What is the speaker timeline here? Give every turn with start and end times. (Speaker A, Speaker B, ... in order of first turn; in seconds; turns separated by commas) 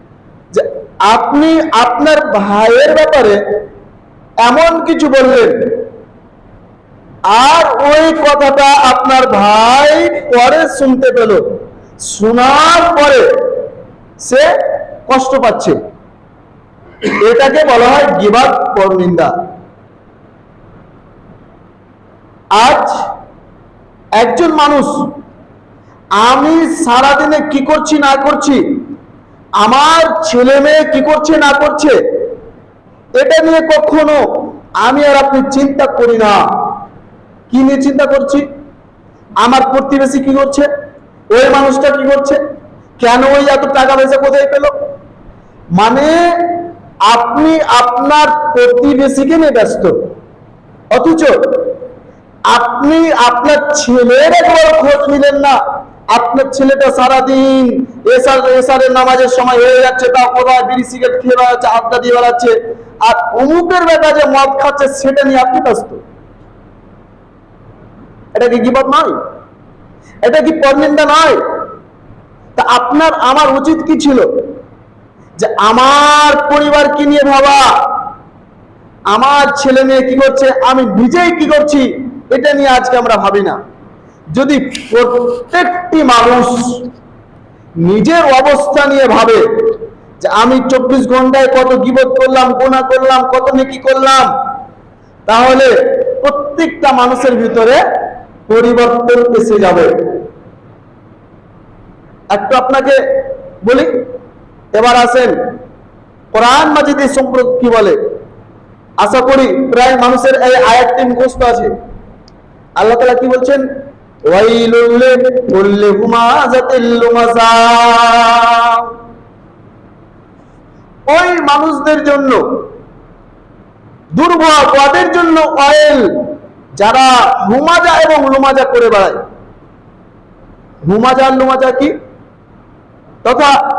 Speaker A: 0.5-3.4, Speaker A: 4.4-5.7, Speaker A: 7.3-11.4, Speaker A: 12.1-13.2, Speaker A: 14.2-14.5, Speaker A: 15.1-15.8, Speaker A: 17.2-19.3, Speaker A: 22.5-23.0, Speaker A: 24.2-25.1, Speaker A: 26.2-28.6, Speaker A: 29.6-32.0, Speaker A: 33.1-34.2, Speaker A: 34.8-36.4, Speaker A: 37.5-38.4, Speaker A: 39.4-40.7, Speaker A: 41.3-42.4, Speaker A: 43.0-44.7, Speaker A: 45.8-49.9, Speaker A: 50.9-51.4, Speaker A: 52.5-55.6, Speaker A: 56.1-66.0, Speaker A: 68.3-69.1, Speaker A: 70.2-71.4, Speaker A: 72.5-74.3, Speaker A: 75.4-77.7, Speaker A: 79.1-83.6, Speaker A: 84.3-86.8, Speaker A: 87.8-89.4, Speaker A: 90.2-94.3, Speaker A: 95.3-97.8, Speaker A: 98.5-99.9, Speaker A: 102.3-103.0, Speaker A: 103.6-103.9, Speaker A: 104.7-105.3, Speaker A: 106.3-108.0, Speaker A: 109.0-111.7, Speaker A: 112.8-113.6, Speaker A: 114.3-118.9, Speaker A: 121.1-122.4, Speaker A: 124.1-126.1, Speaker A: 126.8-129.2, Speaker A: 130.8-131.9, Speaker A: 133.2-133.5